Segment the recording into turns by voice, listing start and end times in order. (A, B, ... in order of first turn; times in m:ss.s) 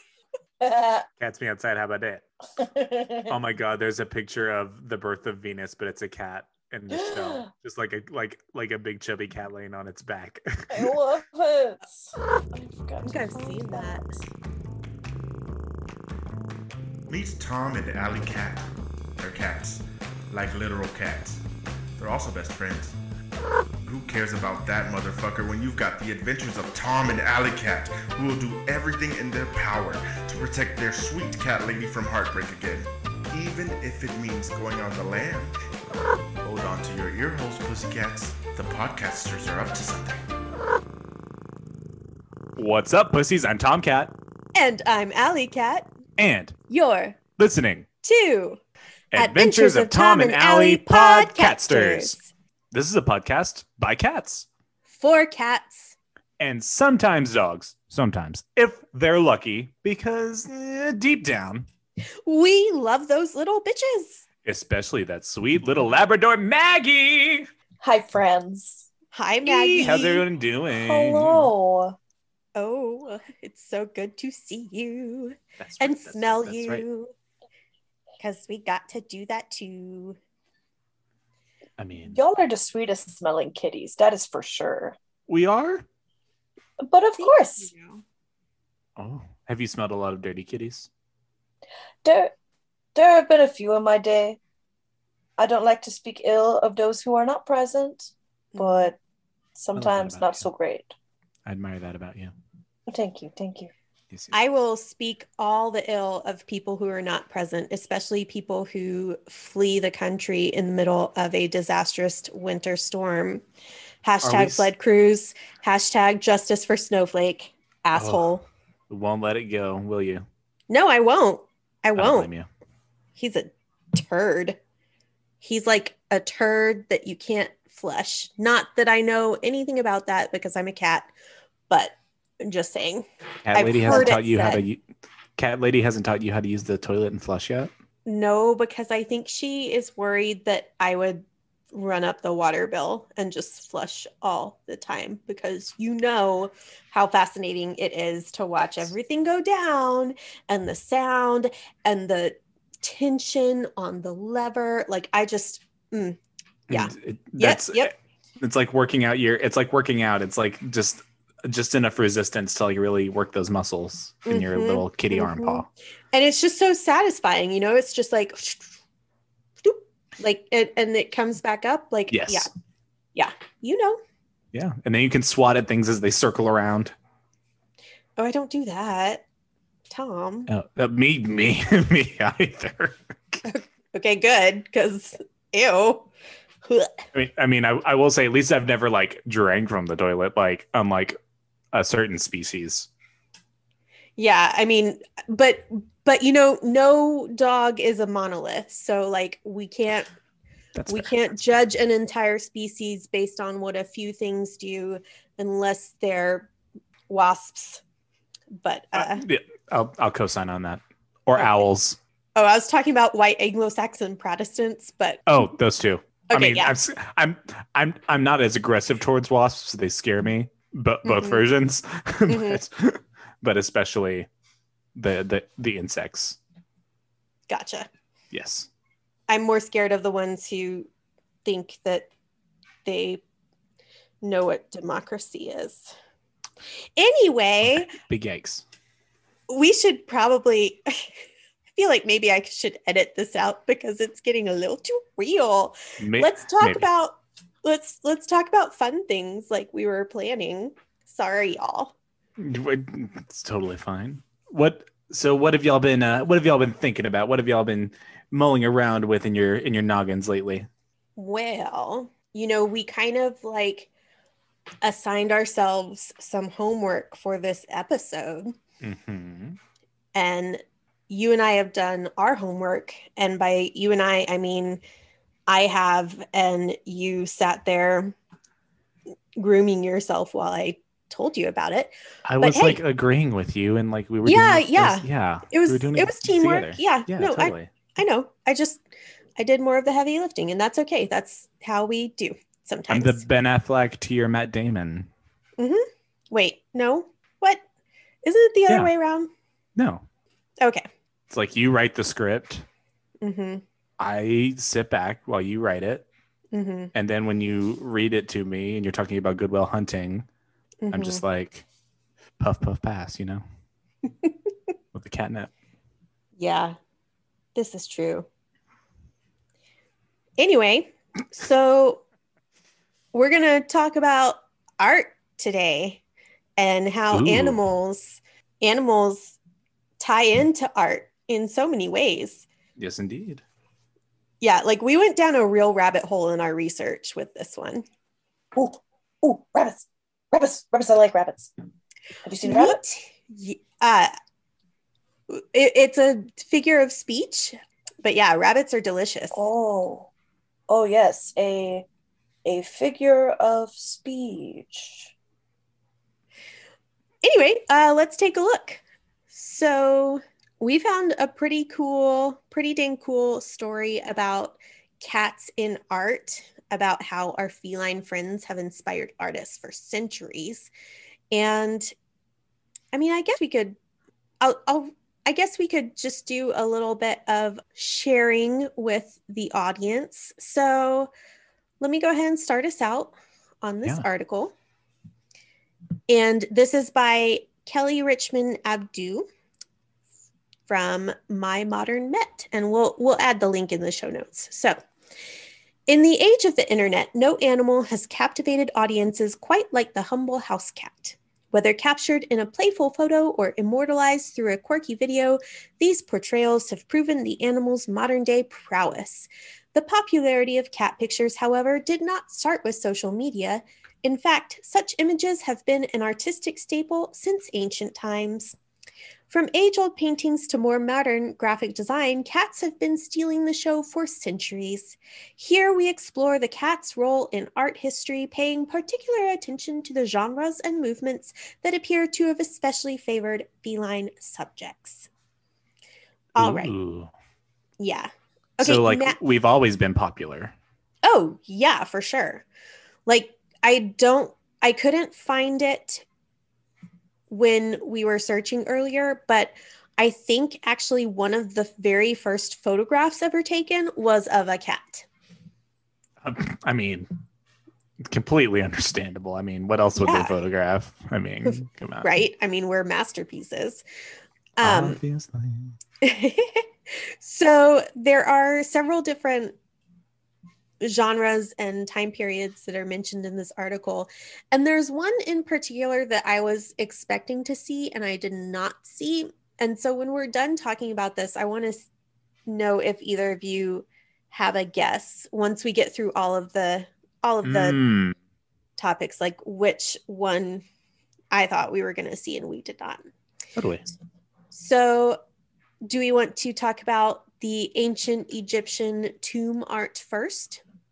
0:00.6-0:01.0 A
0:01.2-0:02.2 B
0:02.6-0:03.3 A
0:03.3-0:10.9 B
0:06.9-0:07.5 A
0:10.7-0:14.0 A
0:13.0-0:14.2 C
0:17.1-0:21.4 D
0:22.0-0:23.0 D
0:23.8-0:35.5 D
0:36.4-0:40.3 D
0:42.6-0:44.1 B
0:44.6-0:45.9 C
0:46.2-0:46.6 B
0:46.7-0:47.2 C
0:47.4-0:47.8 B
0:48.0-0:48.6 C
0:49.1-0:52.2 B
0:49.1-0:52.3 C
0:52.7-0:54.5 B
0:54.9-0:56.0 C
0:56.4-1:01.7 B
1:02.2-1:04.2 C
1:04.4-1:07.5 B
1:07.8-1:08.9 A
1:09.1-1:10.2 C
1:09.4-1:11.5 B
1:10.7-1:12.0 A
1:12.6-1:17.1 C
1:15.6-1:16.8 B
1:18.2-1:20.2 C
1:21.8-1:22.2 B
1:22.1-1:25.0 A
1:25.3-1:25.8 B
1:26.8-1:27.7 A
1:27.2-1:28.0 C
1:29.0-1:30.9 B
1:32.0-1:32.3 A
1:32.9-1:34.4 A
1:35.4-1:39.0 A
1:38.5-1:38.9 C
1:39.5-1:40.9 A
1:39.7-1:40.4 B
1:41.4-1:42.3 B
1:42.9-1:43.7 A
1:44.3-1:53.4 C
1:54.0-1:58.4 C
1:54.2-1:54.7 B
1:57.9-1:58.2 B
1:58.9-2:00.2 B
2:00.7-2:02.3 C
2:02.0-2:02.5 B
2:03.2-2:04.6 C
2:05.4-2:11.1 C
2:11.7-2:14.6 C
2:13.4-2:14.8 B
2:15.4-2:17.7 B
2:18.0-2:36.2 C
2:36.7-2:37.9 B
2:36.7-2:37.9 C
2:38.4-2:45.7 B
2:44.3-2:48.7 C
2:49.6-2:52.5 C
2:52.1-2:52.5 B
2:53.1-2:54.0 C
2:54.5-2:56.9 B
2:58.2-2:59.2 C
2:59.9-3:00.5 C
3:00.5-3:03.4 B
3:03.4-3:06.1 C
3:06.6-3:07.0 C
3:07.1-3:11.2 B
3:11.7-3:12.9 B
3:14.2-3:20.1 C
3:20.7-3:21.1 B
3:20.9-3:26.5 C
3:27.1-3:27.8 C
3:28.6-3:29.2 C
3:28.9-3:32.0 B
3:31.3-3:31.6 C
3:32.4-3:35.5 C
3:35.3-3:44.3 B
3:36.3-3:36.7 C
3:41.0-3:41.4 C
3:42.3-3:42.6 C
3:44.9-3:46.4 B
3:47.5-3:47.9 C
3:48.3-3:48.7 B
3:49.3-3:50.9 C
3:51.4-3:52.1 C
3:52.8-3:53.2 C
3:54.2-3:55.9 C
3:57.0-3:57.9 C
3:57.6-3:58.6 B
3:59.5-4:01.2 C
4:01.7-4:11.9 C
4:06.0-4:06.9 B
4:12.4-4:20.7 B
4:21.2-4:23.9 C
4:24.8-4:28.5 C
4:28.8-4:29.6 B
4:30.1-4:34.8 C
4:35.5-4:38.1 C
4:39.4-4:42.8 C
4:42.3-4:47.7 B
4:44.2-4:48.8 C
4:49.4-4:53.2 C
4:52.9-4:55.1 B
4:55.6-4:57.6 C
4:58.2-4:59.3 C
4:59.8-5:00.0 B
5:00.6-5:00.9 C
5:01.3-5:02.6 B
5:03.2-5:03.6 C
5:04.0-5:06.0 B
5:06.5-5:06.9 C
5:06.9-5:10.2 B
5:10.8-5:11.2 C
5:10.9-5:11.6 B
5:12.4-5:13.4 B
5:14.9-5:15.5 B
5:16.4-5:16.8 C
5:17.5-5:18.2 C
5:20.4-5:22.0 C
5:23.1-5:26.0 C
5:26.6-5:29.4 C
5:27.1-5:27.6 B
5:30.0-5:32.5 C
5:32.8-5:33.4 B
5:34.4-5:37.8 C
5:38.5-5:41.5 A
5:42.2-5:42.8 A
5:42.4-5:44.1 C
5:45.3-5:49.5 C
5:49.3-5:50.1 A
5:50.7-5:51.8 A
5:52.4-5:55.1 A
5:57.2-6:10.7 C
6:11.3-6:11.9 C
6:12.9-6:13.8 C
6:14.4-6:21.1 C
6:21.8-6:24.5 C
6:26.1-6:29.2 C
6:30.7-6:34.8 C
6:35.9-6:58.6 C
6:59.3-7:15.1 C
7:16.3-7:16.7 C
7:16.4-7:17.1 B
7:17.8-7:19.2 C
7:18.6-7:20.5 B
7:21.0-7:22.4 C
7:23.1-7:26.0 C
7:27.3-7:35.0 C
7:36.2-7:37.1 B
7:38.0-7:42.1 B
7:40.0-7:40.3 C
7:41.5-7:43.8 C
7:44.6-7:45.0 C
7:44.6-7:45.8 B
7:46.0-7:49.5 C
7:50.8-8:01.9 C
8:02.5-8:07.8 C
8:07.4-8:08.1 B
8:08.8-8:10.6 C
8:11.3-8:13.1 C
8:13.6-8:13.8 B
8:14.5-8:15.2 C
8:15.8-8:20.6 C